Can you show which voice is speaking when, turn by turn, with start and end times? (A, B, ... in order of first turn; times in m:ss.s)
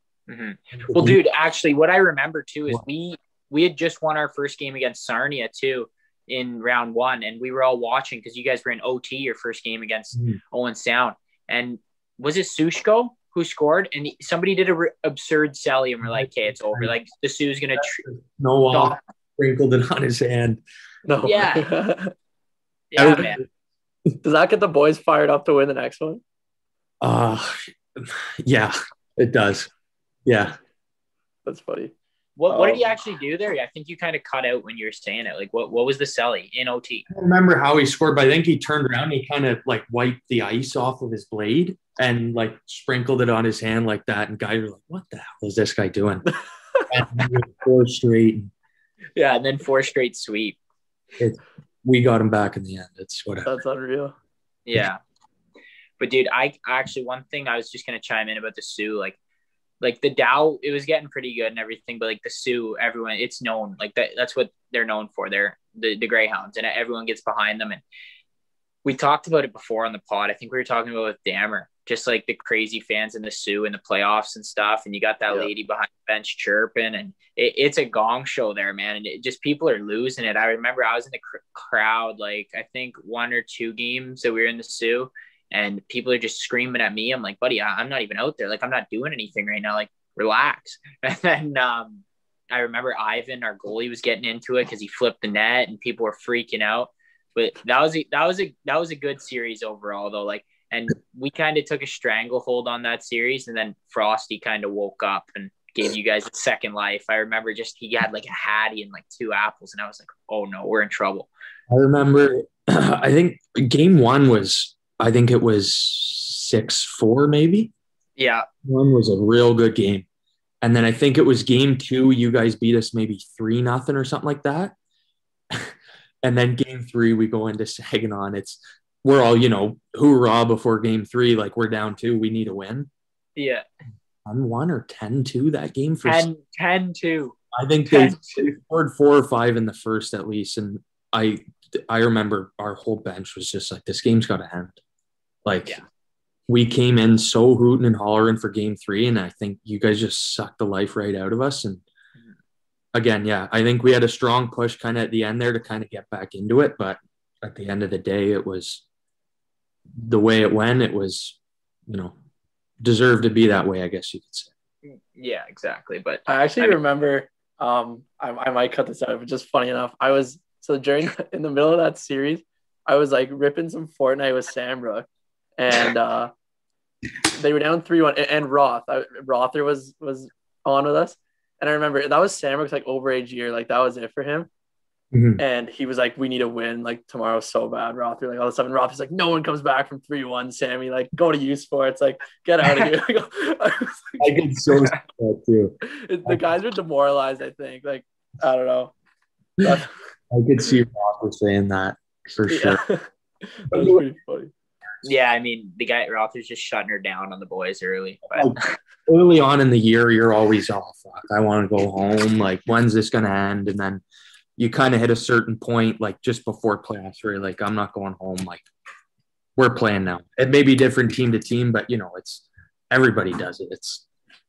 0:00.3-0:18.0 A
0:00.8-0:01.2 B
0:16.1-0:16.9 B
0:17.8-0:20.6 B
0:18.7-0:19.0 A
0:21.1-0:22.1 C
0:21.2-0:21.7 A
0:22.9-0:23.4 A
0:23.0-0:23.4 B
0:24.2-0:26.2 C
0:27.0-0:29.7 B
0:30.3-0:30.6 B
0:31.5-0:31.9 C
0:32.4-0:37.0 A
0:32.5-0:32.9 B
0:37.1-0:46.3 B
0:46.9-0:48.5 B
0:49.2-0:50.6 A
0:51.2-0:53.5 B
0:53.4-0:54.1 C
0:54.7-0:55.0 A
0:56.0-0:59.2 A
0:59.8-1:07.8 A
1:08.8-1:51.3 A
1:51.7-1:57.7 B
1:58.2-1:58.5 A
1:58.6-2:00.1 B
2:00.6-2:04.7 B
2:05.5-2:12.9 B
2:13.4-2:13.6 A
2:14.3-2:16.3 B
2:16.0-2:17.4 A
2:17.5-2:24.8 B
2:17.9-2:18.5 A
2:25.5-2:25.8 B
2:26.5-2:31.8 B
2:32.9-2:38.8 B
2:40.0-2:41.4 B
2:41.9-2:42.1 B
2:42.8-2:44.5 B
2:44.9-2:46.8 A
2:46.3-2:55.1 C
2:55.6-2:56.3 C
2:57.3-3:04.5 C
3:05.1-3:05.4 B
3:05.4-3:14.2 C
3:14.2-3:16.4 B
3:15.8-3:18.9 C
3:19.6-3:22.8 B
3:19.6-3:19.9 C
3:22.5-3:24.5 C
3:23.7-3:24.0 B
3:25.0-3:28.6 A
3:28.3-3:34.0 B
3:34.6-3:38.6 B
3:39.6-3:44.0 B